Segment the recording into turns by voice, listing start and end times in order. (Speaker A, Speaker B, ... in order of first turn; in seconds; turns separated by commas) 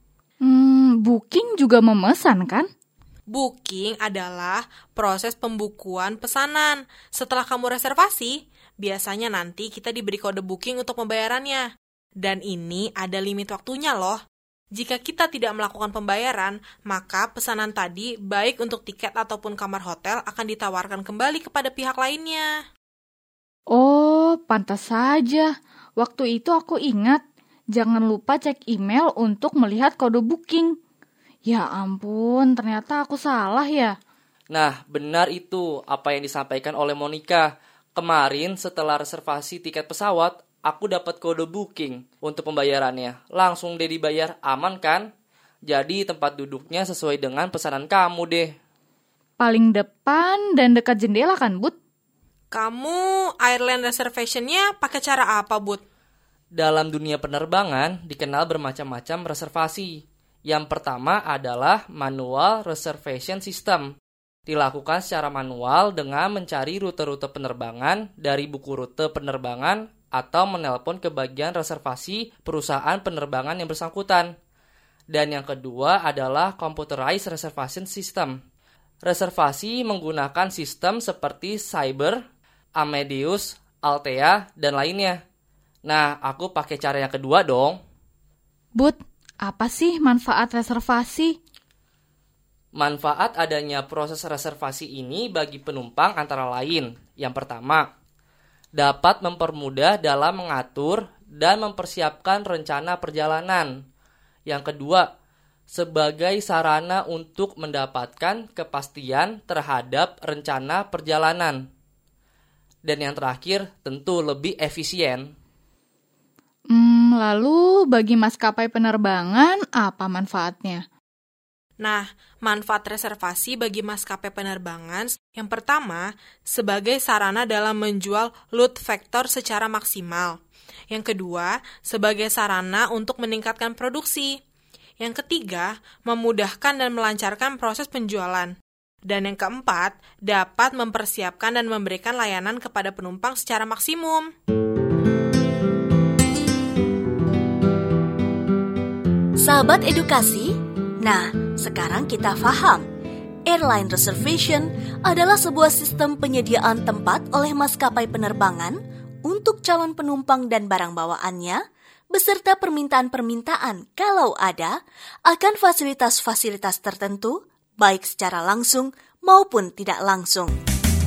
Speaker A: 0.4-2.7, Speaker B: 3.3-11.7, Speaker B: 12.2-14.2, Speaker B: 14.7-22.5, Speaker A: 23.7-27.2, Speaker A: 27.8-30.7, Speaker A: 31.5-34.0, Speaker C: 34.5-45.1, Speaker C: 45.7-48.5, Speaker A: 49.4-51.8, Speaker B: 52.5-55.8, Speaker C: 56.5-63.9, Speaker C: 64.5-74.3, Speaker C: 75.1-78.4, Speaker C: 79.0-82.2, Speaker C: 82.8-85.2, Speaker C: 85.9-87.8, Speaker A: 88.8-91.4, Speaker C: 92.8-97.9, Speaker C: 98.8-103.7, Speaker C: 104.5-105.1, Speaker C: 105.7-111.6, Speaker C: 112.8-115.3, Speaker A: 116.7-120.8, Speaker B: 121.8-130.4, Speaker B: 130.9-134.4, Speaker B: 135.0-138.6, Speaker B: 139.1-144.3, Speaker D: 149.4-152.9, Speaker D: 153.5-170.6